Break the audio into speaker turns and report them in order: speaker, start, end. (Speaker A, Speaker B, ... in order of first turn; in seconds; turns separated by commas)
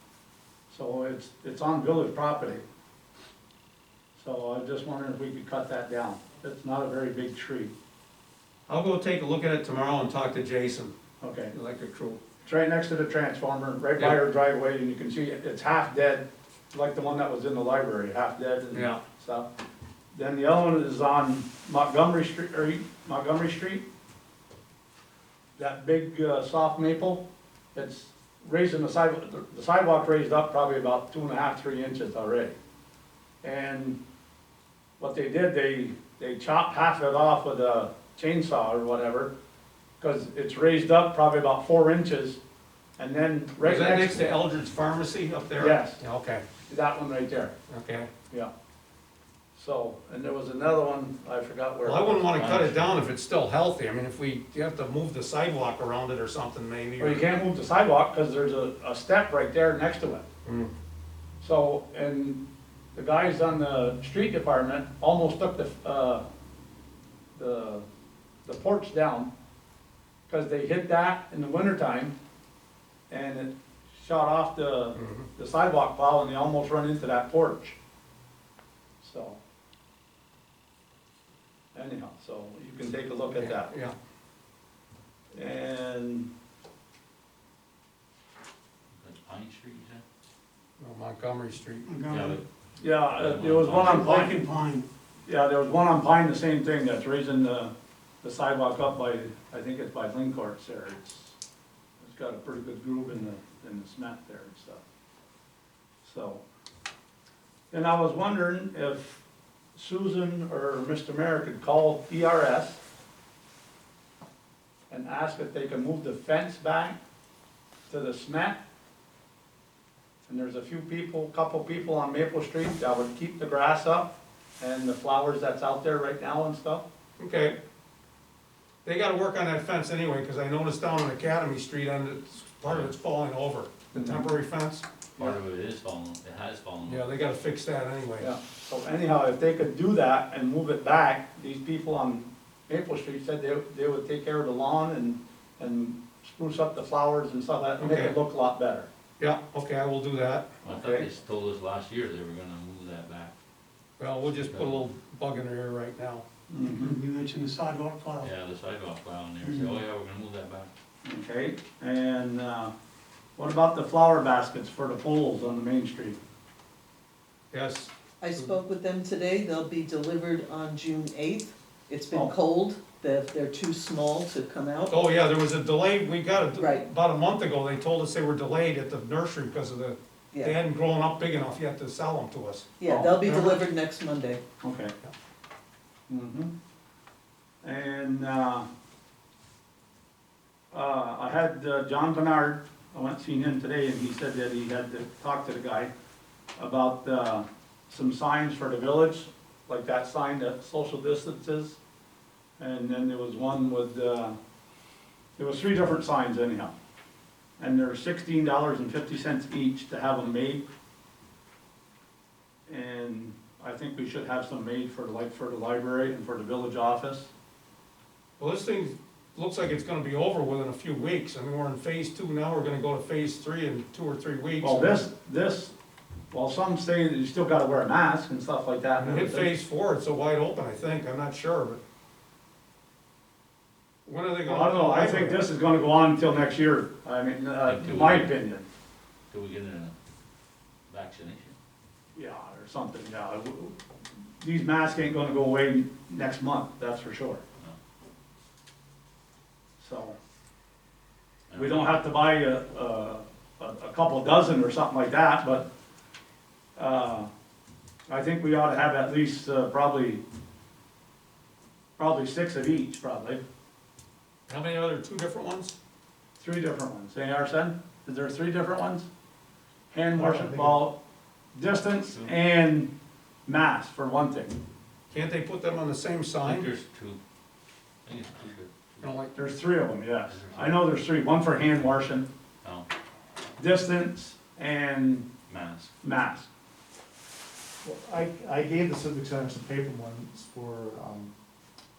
Speaker A: 0.7-2.6, Speaker A: 4.2-7.7, Speaker B: 8.7-10.9, Speaker A: 11.2-11.5, Speaker B: 11.5-12.2, Speaker A: 12.4-19.5, Speaker B: 18.7-19.0, Speaker A: 20.1-23.8, Speaker A: 25.6-27.2, Speaker A: 27.8-32.5, Speaker A: 33.4-34.0, Speaker A: 35.0-39.3, Speaker A: 40.0-42.4, Speaker A: 43.0-44.3, Speaker B: 43.6-46.4, Speaker A: 45.6-46.0, Speaker A: 46.7-47.5, Speaker B: 47.7-48.1, Speaker A: 49.5-52.3, Speaker B: 51.8-57.3, Speaker C: 52.3-52.8, Speaker A: 57.0-60.2, Speaker B: 60.5-60.7, Speaker A: 61.4-62.4, Speaker A: 63.0-66.2, Speaker A: 67.3-67.9, Speaker A: 68.5-69.3, Speaker A: 70.3-72.2, Speaker A: 73.1-77.8, Speaker B: 75.0-75.3, Speaker A: 79.0-79.4, Speaker A: 81.7-83.7, Speaker B: 83.4-84.0, Speaker A: 85.3-86.3, Speaker C: 88.9-90.0, Speaker B: 90.8-91.9, Speaker D: 91.8-92.4, Speaker C: 92.1-92.4, Speaker A: 92.8-94.4, Speaker C: 93.1-94.1, Speaker D: 93.9-94.9, Speaker A: 95.3-97.7, Speaker A: 98.2-101.4, Speaker A: 102.0-104.8, Speaker A: 106.0-106.4, Speaker A: 107.7-109.2, Speaker A: 109.8-112.8, Speaker A: 114.9-117.0, Speaker A: 117.9-118.6, Speaker A: 120.3-126.8, Speaker B: 127.2-127.6, Speaker B: 128.8-134.9, Speaker C: 132.7-132.9, Speaker A: 133.9-134.3, Speaker C: 135.2-137.0, Speaker B: 136.9-138.3, Speaker A: 138.2-148.9, Speaker B: 147.8-148.2, Speaker B: 149.2-150.5, Speaker A: 150.6-151.1, Speaker C: 150.6-153.3, Speaker B: 154.0-156.2, Speaker C: 154.5-154.9, Speaker A: 156.5-157.0, Speaker D: 156.6-158.3, Speaker C: 158.2-160.7, Speaker D: 159.4-159.7, Speaker A: 161.1-162.7, Speaker A: 163.4-166.2, Speaker B: 167.5-168.5, Speaker E: 168.2-174.9, Speaker B: 174.9-183.7, Speaker E: 176.6-176.9, Speaker E: 180.3-180.6, Speaker E: 182.8-184.4, Speaker A: 182.8-183.2, Speaker A: 184.6-184.9, Speaker A: 186.1-186.5, Speaker A: 187.6-188.7, Speaker A: 190.7-195.9, Speaker A: 196.6-201.8, Speaker A: 202.6-204.4, Speaker A: 205.4-206.7, Speaker A: 207.6-210.6, Speaker A: 212.7-217.3, Speaker B: 218.4-225.1, Speaker A: 224.6-225.7, Speaker A: 226.3-229.5, Speaker B: 229.0-231.8, Speaker B: 234.1-235.4, Speaker A: 234.4-238.7, Speaker C: 237.7-238.3, Speaker C: 239.3-239.9, Speaker C: 240.9-241.6, Speaker A: 242.2-243.8, Speaker A: 244.4-247.4, Speaker A: 249.8-250.2, Speaker C: 251.5-251.9, Speaker A: 251.6-255.7, Speaker A: 256.8-257.3, Speaker A: 258.1-260.2, Speaker A: 262.0-263.4, Speaker B: 264.5-265.7, Speaker A: 266.4-269.1, Speaker A: 269.9-271.0, Speaker D: 270.2-270.8, Speaker A: 271.6-272.9, Speaker A: 273.5-274.6, Speaker B: 275.1-276.7, Speaker C: 276.4-277.2, Speaker C: 278.1-279.0, Speaker B: 279.0-279.4, Speaker A: 279.4-282.3, Speaker C: 280.3-280.8, Speaker C: 282.6-282.9, Speaker A: 283.6-285.3, Speaker C: 285.5-285.9, Speaker A: 286.0-286.5, Speaker D: 287.9-289.3, Speaker F: 287.9-291.3